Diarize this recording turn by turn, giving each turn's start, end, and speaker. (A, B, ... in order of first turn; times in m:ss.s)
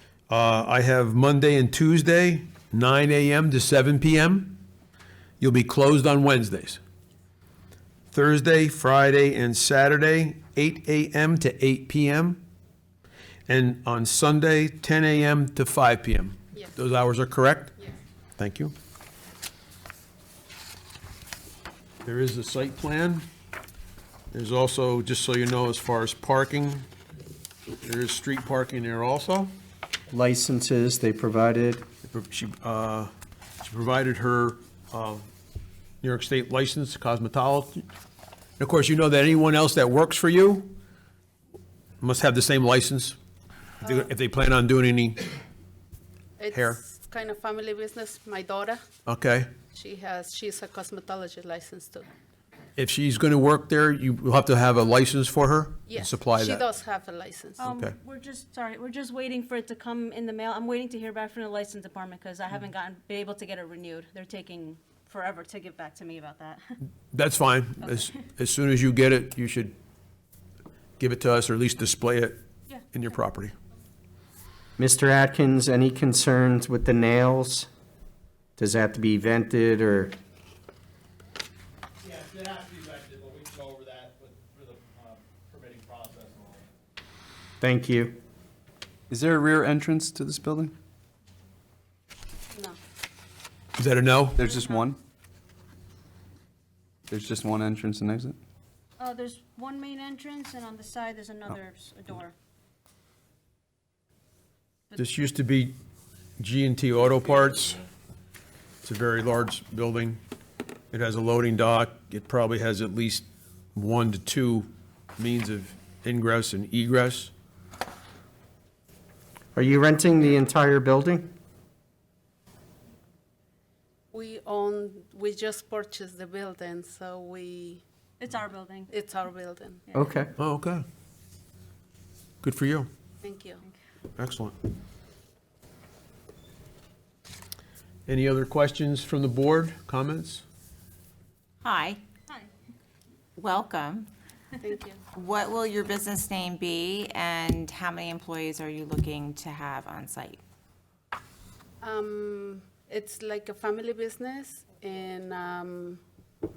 0:00.3-0:04.6 A
0:05.4-0:06.8 A
0:08.1-0:12.4 A
0:13.5-0:17.8 A
0:18.4-0:18.7 A
0:22.0-0:23.2 A
0:24.3-0:26.9 A
0:27.8-0:29.5 A
0:30.1-0:31.9 B
0:32.0-0:35.3 A
0:36.0-0:37.9 A
0:38.6-0:40.8 A
0:42.0-0:43.2 A
0:43.8-0:44.1 C
0:43.8-0:45.4 A
0:46.4-0:48.8 C
0:46.5-0:46.8 A
0:49.1-0:49.6 A
0:49.7-0:52.1 C
0:52.8-0:56.7 A
0:55.9-0:57.7 C
0:57.6-1:06.6 D
0:57.7-0:57.9 A
1:07.1-1:09.7 A
1:07.9-1:08.1 D
1:11.0-1:12.4 A
1:12.9-1:13.6 A
1:14.8-1:17.7 B
1:18.6-1:20.2 B
1:22.1-1:26.6 E
1:27.6-1:28.2 B
1:29.1-1:30.7 F
1:33.8-1:34.4 A
1:34.4-1:35.0 F
1:37.1-1:38.4 F
1:39.0-1:42.3 D
1:44.9-1:45.2 D
1:45.0-1:45.8 A
1:46.4-1:47.8 A
1:48.8-1:50.2 A
1:50.9-1:57.3 A
1:59.6-2:01.3 B
2:04.1-2:07.8 C
2:08.2-2:08.9 D
2:08.9-2:09.9 C
2:10.0-2:10.3 B
2:10.4-2:10.8 A
2:12.4-2:12.9 A
2:13.2-2:13.6 C
2:14.2-2:14.6 A
2:18.1-2:20.4 A
2:21.6-2:22.0 G
2:23.4-2:24.1 G
2:25.1-2:30.4 G
2:31.8-2:36.0 C